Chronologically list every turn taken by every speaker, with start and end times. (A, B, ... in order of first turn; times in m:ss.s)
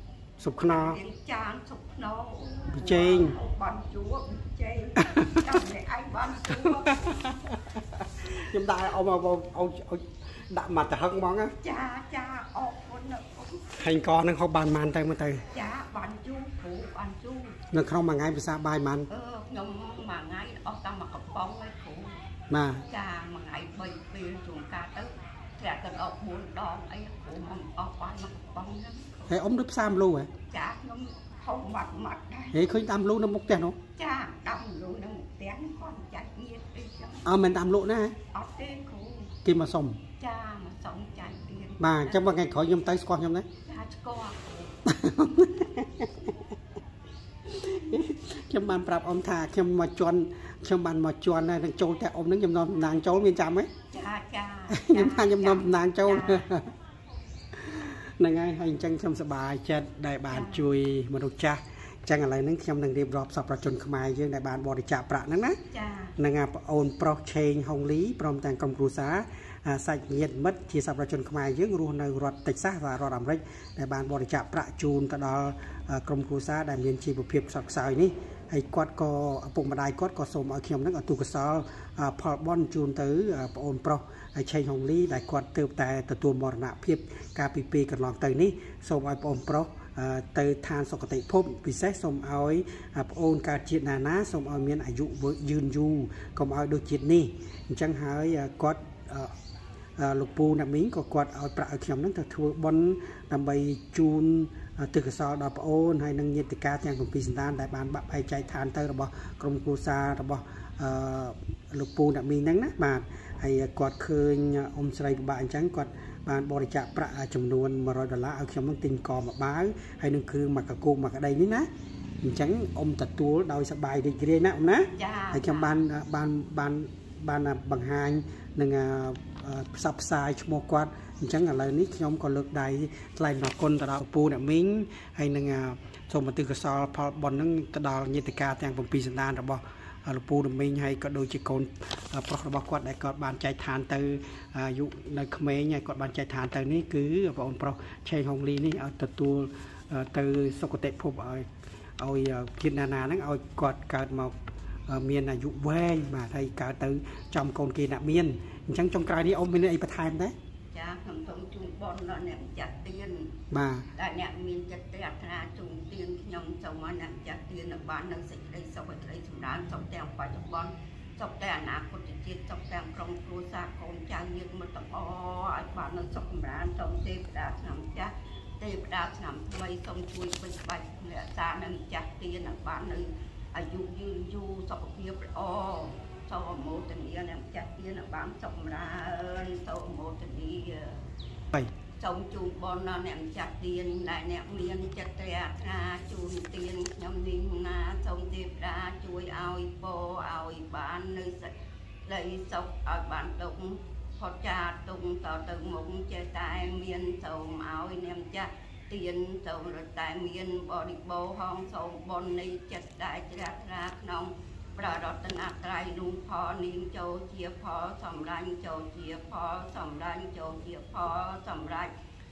0:00.4-0:01.0 A
0:00.6-0:07.4 B
0:02.7-0:03.4 A
0:05.0-0:05.5 A
0:06.7-0:11.5 A
0:11.6-0:13.7 B
0:13.8-0:15.4 A
0:15.5-0:17.6 B
0:17.7-0:19.1 A
0:19.1-0:22.2 B
0:22.5-0:22.8 A
0:22.9-0:29.4 B
0:29.3-0:30.3 A
0:30.5-0:32.6 B
0:32.5-0:33.8 A
0:34.0-0:37.3 B
0:37.2-0:38.2 A
0:38.3-0:39.4 B
0:39.4-0:40.0 A
0:40.2-0:42.3 B
0:41.8-0:43.5 A
0:43.6-0:44.8 B
0:44.8-0:46.3 A
0:47.5-0:53.7 A
0:53.9-0:56.5 B
0:54.7-0:56.7 A
0:57.6-1:05.6 A
1:00.3-1:00.7 B
1:05.7-1:06.2 B
1:06.2-1:39.3 A
1:40.0-2:01.7 A
2:02.2-2:31.5 A
2:05.0-2:05.8 B
2:32.0-2:34.3 A
2:34.9-2:40.3 A
2:40.7-2:43.3 B
2:43.5-2:43.9 A
2:43.9-3:11.0 B
3:12.0-3:21.5 B
3:22.0-3:41.9 B